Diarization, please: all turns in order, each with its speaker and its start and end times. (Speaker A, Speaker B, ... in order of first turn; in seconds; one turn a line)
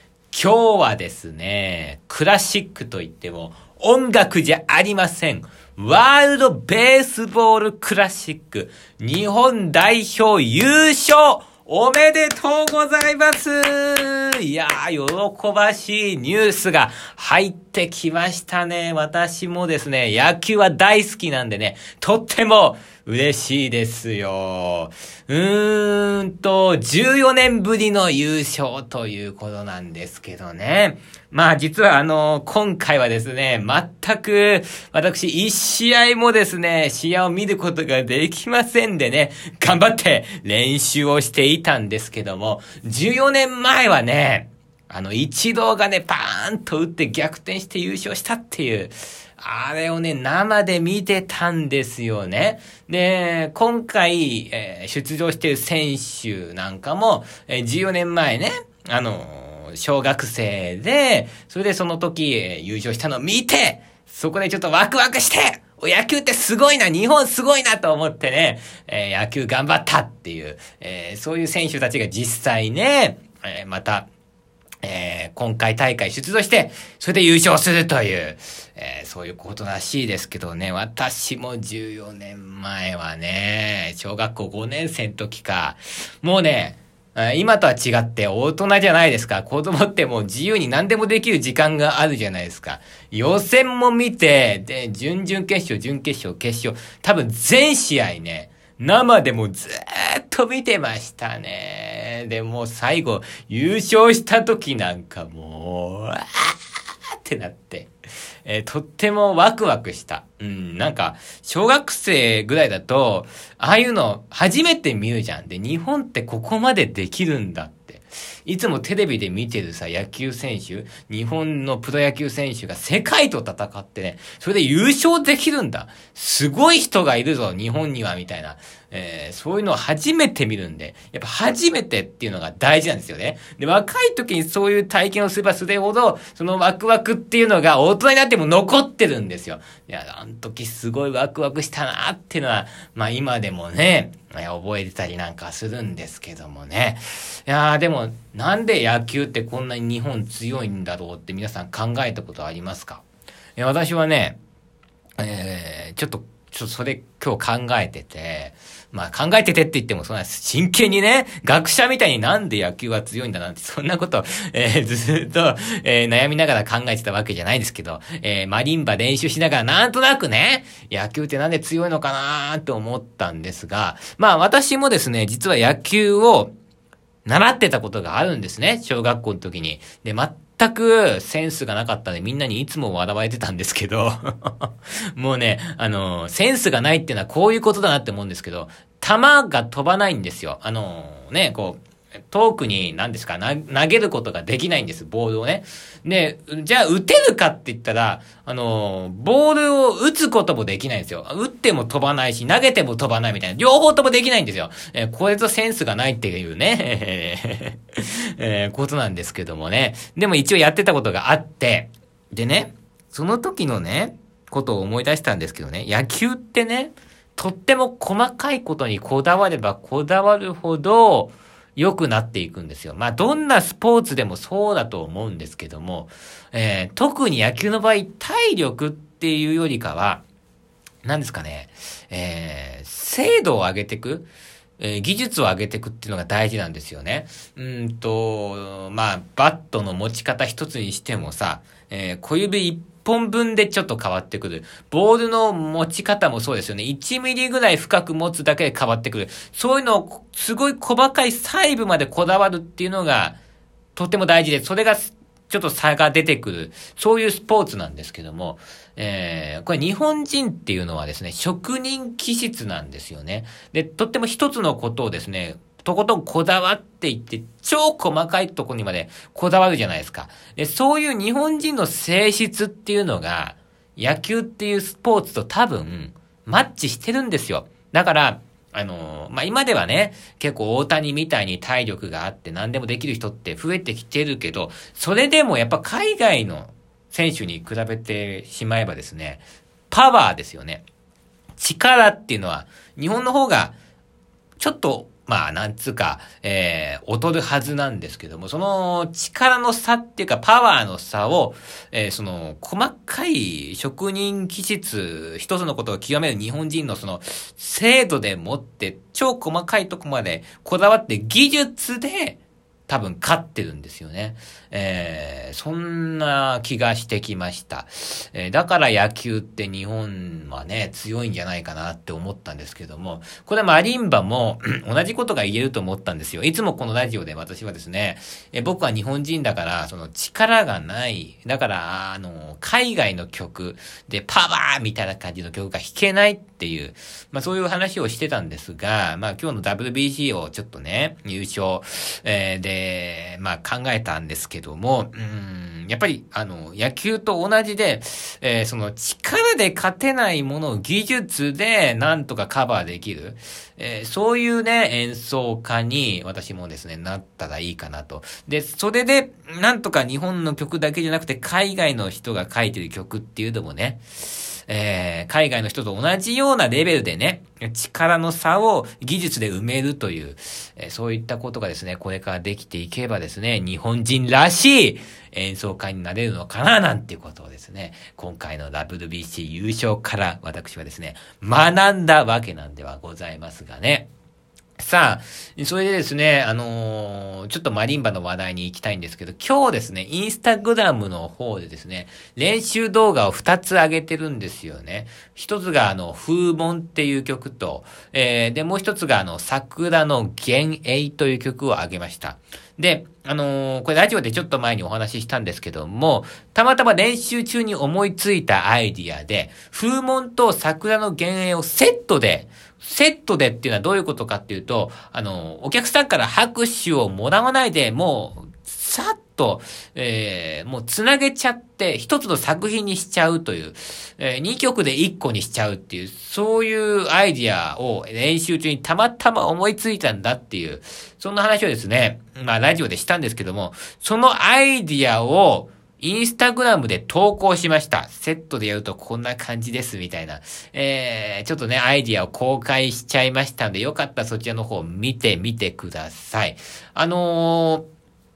Speaker A: 0.3-74.1
Speaker A: 74.8-106.6
Speaker A: 107.2-107.9
Speaker A: 108.5-153.0
Speaker A: 153.6-154.4
Speaker A: 155.2-176.5
Speaker A: 177.3-230.2
Speaker A: 231.0-234.3
Speaker A: 234.8-253.4
Speaker A: 254.0-290.8
Speaker A: 291.6-293.8
Speaker A: 294.6-384.1
Speaker A: 384.8-447.9